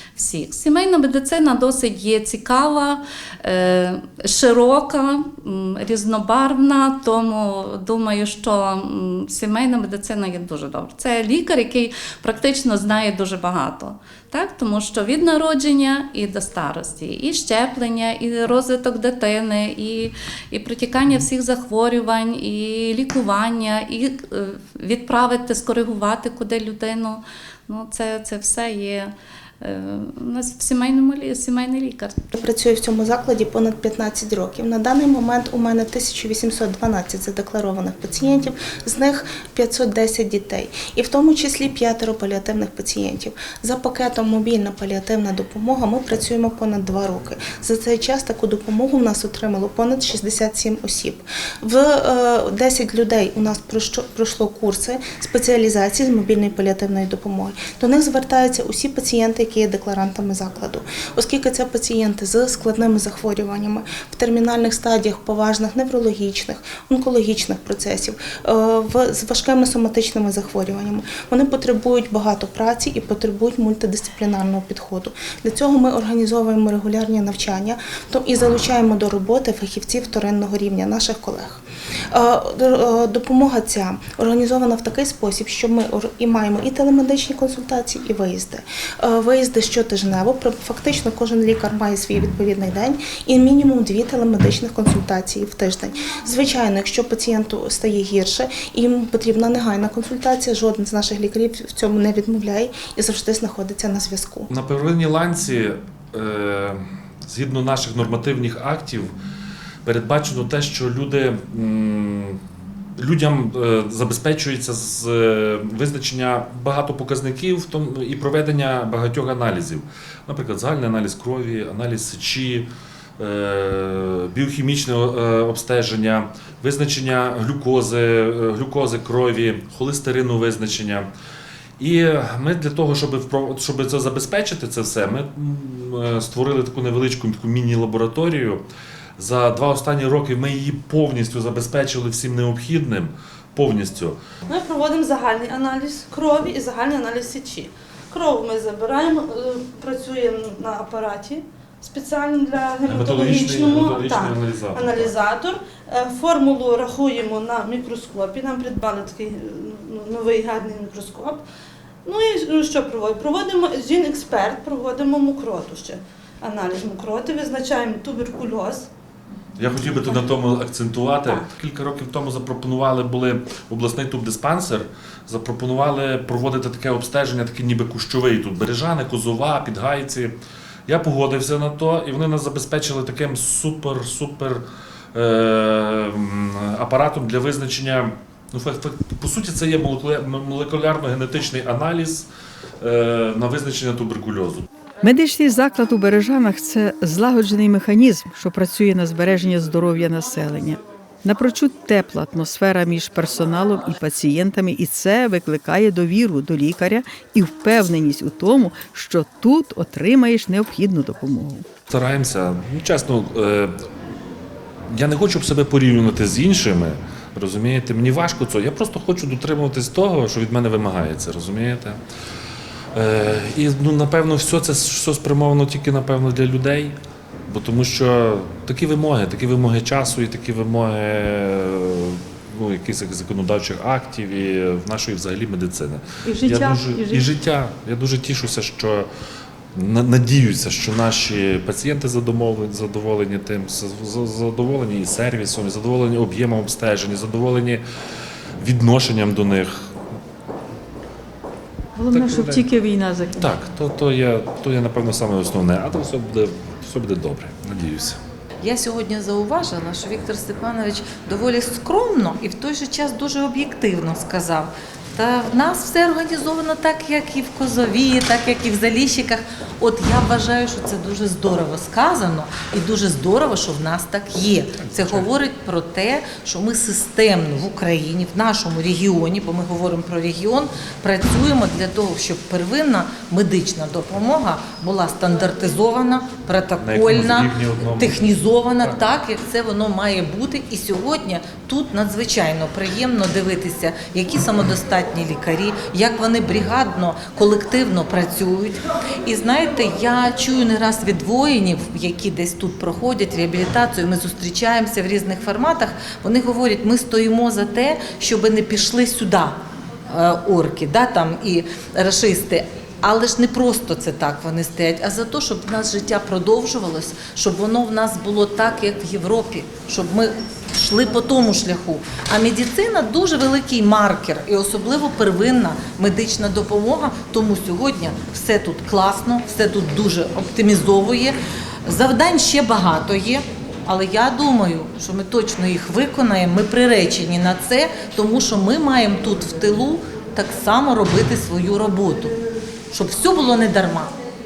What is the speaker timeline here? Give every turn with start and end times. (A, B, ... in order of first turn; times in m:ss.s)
0:00.2-0:32.2 A
0:32.3-1:44.5 B
1:44.5-1:49.1 C
1:49.8-1:52.4 C
1:53.0-2:11.1 C
2:11.8-2:18.6 C
2:19.2-2:24.2 C
2:24.5-2:41.4 D
2:32.8-2:35.1 C
2:42.0-2:48.9 D
2:49.6-3:00.4 C
2:49.9-2:50.3 D
3:00.9-3:12.3 C
3:12.8-3:14.7 C
3:15.0-3:31.6 E
3:31.9-3:33.7 C
3:34.9-3:42.0 C
3:42.9-3:47.0 C
3:47.5-3:59.1 C
3:56.2-3:57.3 E
3:59.7-4:07.8 C
4:08.6-4:09.7 C
4:12.0-4:13.6 E
4:12.1-4:12.7 C
4:13.3-4:18.2 C
4:18.6-5:42.3 F
4:34.7-4:35.3 C
4:46.8-4:49.1 C
5:42.9-5:44.1 F